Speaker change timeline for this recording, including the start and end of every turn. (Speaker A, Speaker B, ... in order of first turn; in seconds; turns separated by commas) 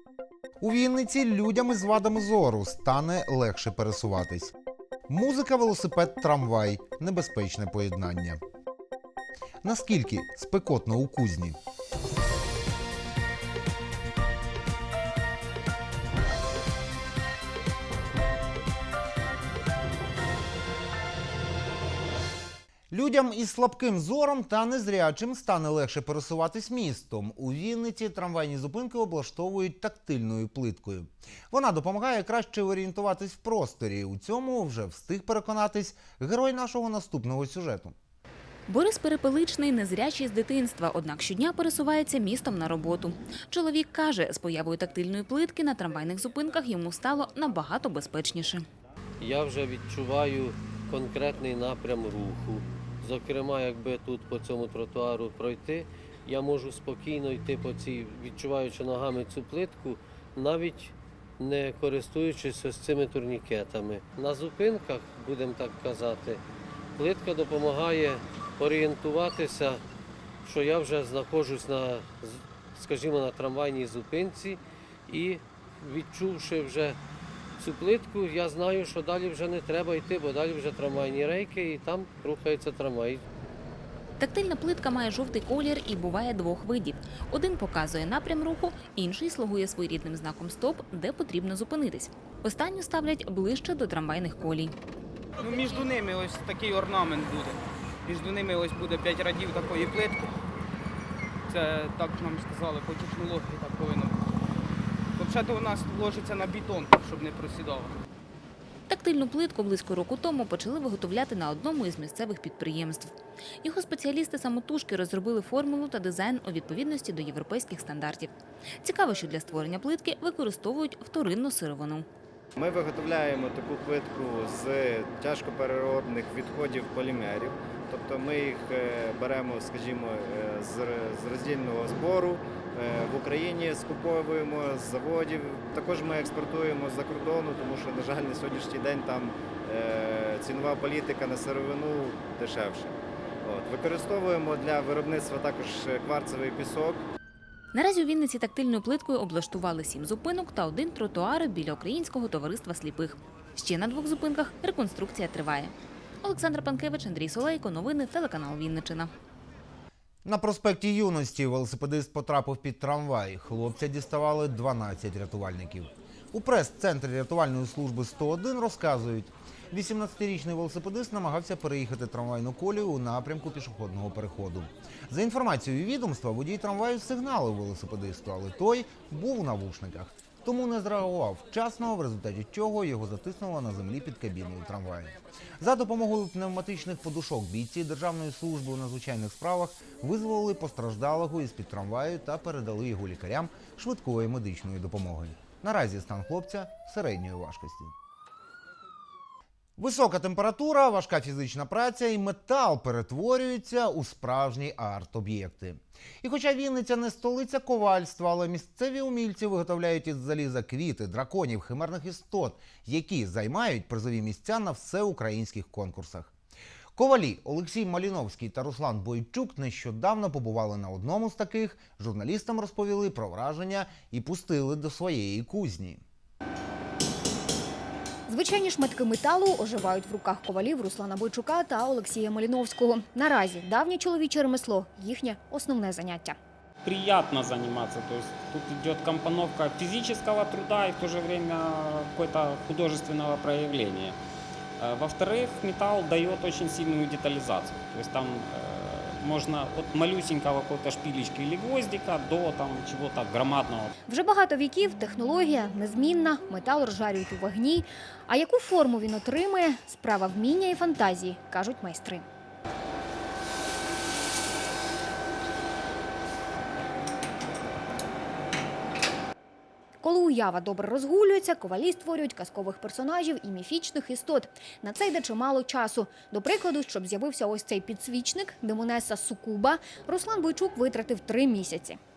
Speaker A: 0.6-4.5, Speaker A: 5.1-8.4, Speaker A: 9.6-11.6, Speaker A: 22.9-38.0, Speaker B: 38.7-48.6, Speaker C: 49.2-66.4, Speaker C: 67.0-69.8, Speaker C: 70.4-77.0, Speaker C: 77.6-83.2, Speaker B: 84.2-94.7, Speaker D: 95.4-97.5, Speaker D: 98.1-100.2, Speaker D: 101.5-104.1, Speaker D: 105.2-107.9, Speaker B: 108.9-122.1, Speaker E: 122.6-147.0, Speaker B: 147.7-159.1, Speaker A: 160.2-197.9, Speaker A: 199.8-216.3, Speaker A: 216.9-226.0, Speaker F: 228.3-236.4, Speaker G: 236.8-244.2, Speaker G: 244.8-253.9, Speaker F: 254.1-262.2, Speaker F: 270.0-282.0